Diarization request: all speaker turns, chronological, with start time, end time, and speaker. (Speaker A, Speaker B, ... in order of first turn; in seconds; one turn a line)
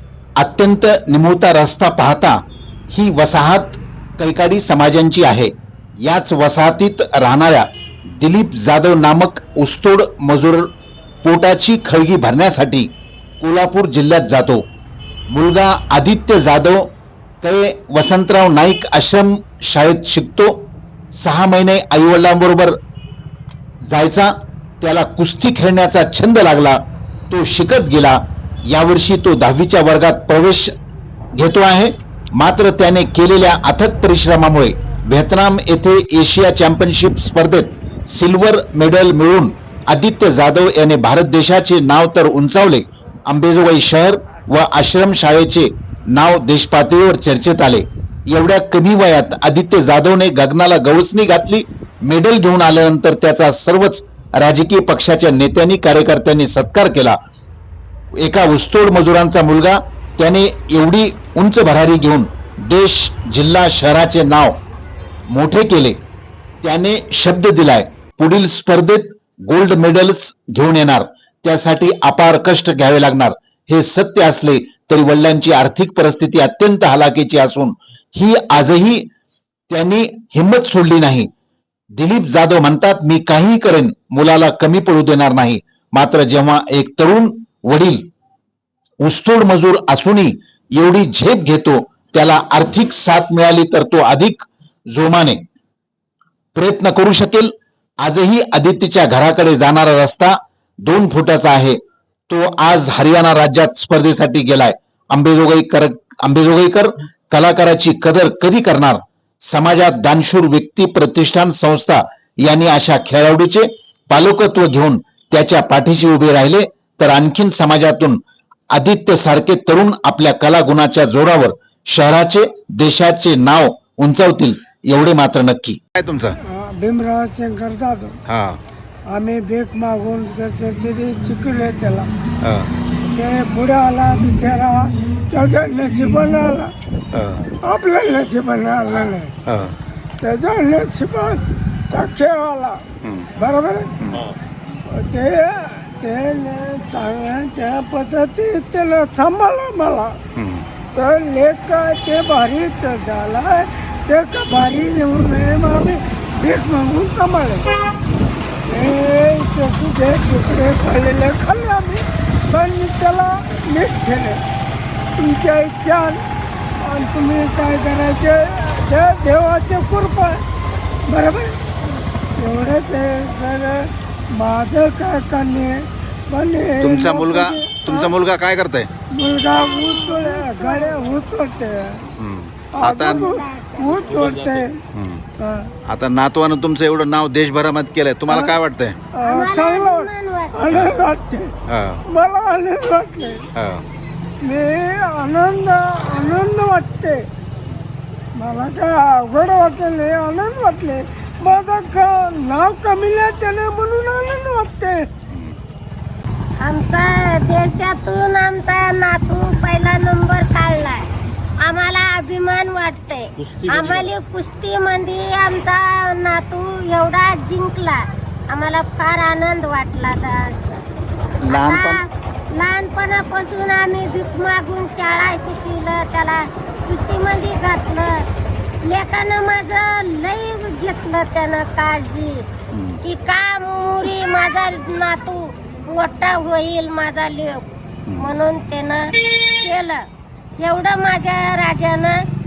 Speaker A: 0.4-10.7
Speaker A: 11.2-14.7
Speaker A: 15.3-22.8
Speaker A: 23.8-30.7
Speaker A: 31.4-57.2
Speaker A: 58.2-64.6
Speaker A: 65.3-66.0
Speaker A: 66.6-79.1
Speaker A: 79.7-81.3
Speaker A: 81.9-88.1
Speaker A: 89.0-95.4
Speaker A: 96.5-118.2
Speaker A: 118.7-125.8
Speaker B: 126.0-126.4
Speaker C: 126.4-128.2
Speaker B: 128.3-128.6
Speaker C: 129.1-132.1
Speaker B: 132.4-132.7
Speaker C: 133.0-136.7
Speaker B: 137.1-137.5
Speaker C: 137.6-139.4
Speaker B: 139.5-139.8
Speaker C: 140.2-142.8
Speaker B: 143.0-143.3
Speaker C: 143.3-144.0
Speaker C: 144.9-150.2
Speaker B: 150.4-150.7
Speaker C: 150.9-157.7
Speaker C: 158.7-164.4
Speaker C: 165.2-166.2
Speaker C: 166.8-170.4
Speaker C: 171.1-178.1
Speaker B: 176.8-178.9
Speaker C: 179.1-182.1
Speaker D: 179.5-181.0
Speaker B: 182.2-183.3
Speaker C: 182.7-184.8
Speaker D: 183.2-184.3
Speaker B: 184.9-185.2
Speaker C: 185.4-185.7
Speaker B: 185.9-189.0
Speaker C: 188.3-188.6
Speaker C: 189.1-191.5
Speaker D: 189.2-190.6
Speaker B: 191.7-192.0
Speaker C: 192.1-193.5
Speaker B: 193.6-193.8
Speaker C: 194.4-197.3
Speaker C: 198.3-205.1
Speaker D: 206.6-211.1
Speaker D: 211.6-220.8
Speaker D: 221.5-228.3
Speaker A: 221.5-222.0
Speaker D: 228.8-232.5
Speaker B: 232.7-233.0
Speaker D: 233.0-240.1
Speaker D: 240.6-242.3